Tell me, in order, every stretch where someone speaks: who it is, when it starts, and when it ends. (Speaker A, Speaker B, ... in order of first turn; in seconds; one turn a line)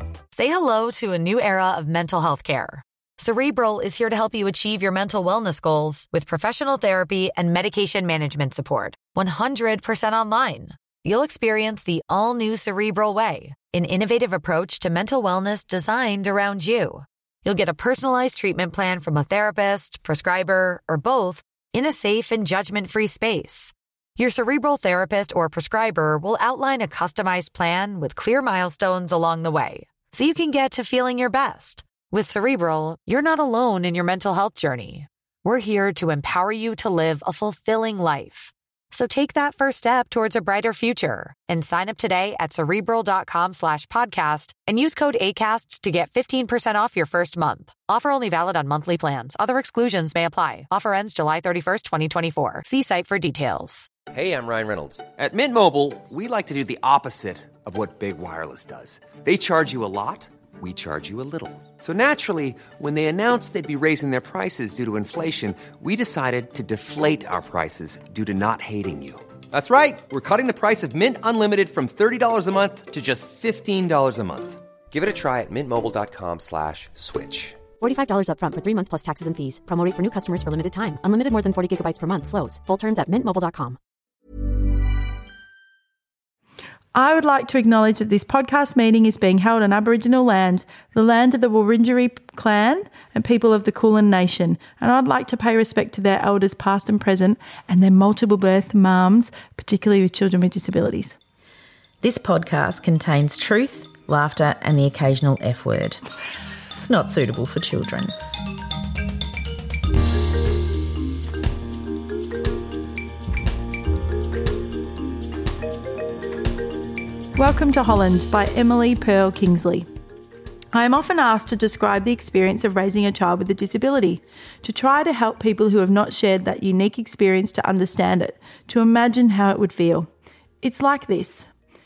Speaker A: 0.3-53.9
Speaker B: 54.1-77.6
Speaker C: 77.8-83.8
Speaker D: 86.9-101.2
Speaker E: 102.0-106.0
Speaker E: 106.7-108.1
Speaker D: 117.3-119.9
Speaker D: 120.7-130.1
Speaker D: 130.6-131.5